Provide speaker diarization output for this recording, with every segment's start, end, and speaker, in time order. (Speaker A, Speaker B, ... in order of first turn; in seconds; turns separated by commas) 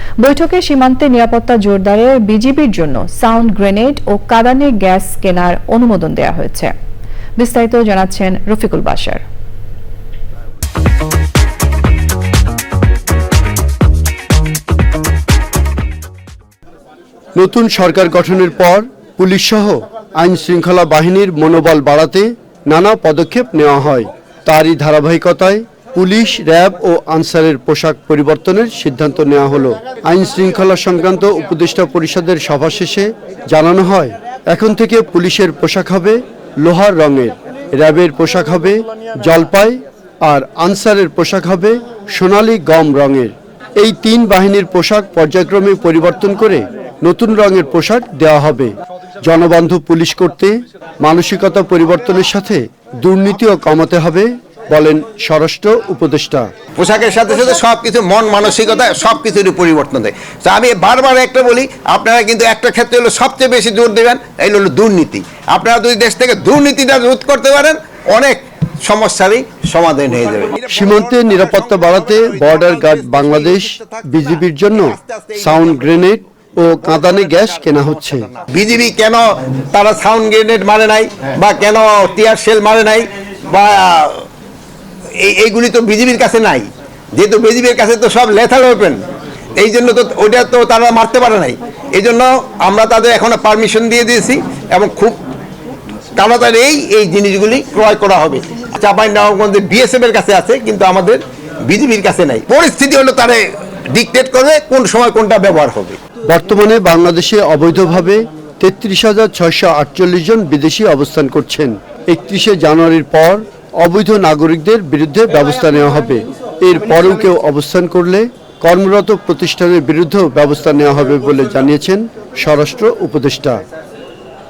Speaker A: 0.2-6.7, Speaker A: 7.4-9.2, Speaker B: 17.4-56.5, Speaker C: 56.8-84.2, Speaker B: 70.7-78.3, Speaker C: 85.2-89.0, Speaker C: 89.5-95.2, Speaker C: 96.2-106.0, Speaker B: 106.3-123.6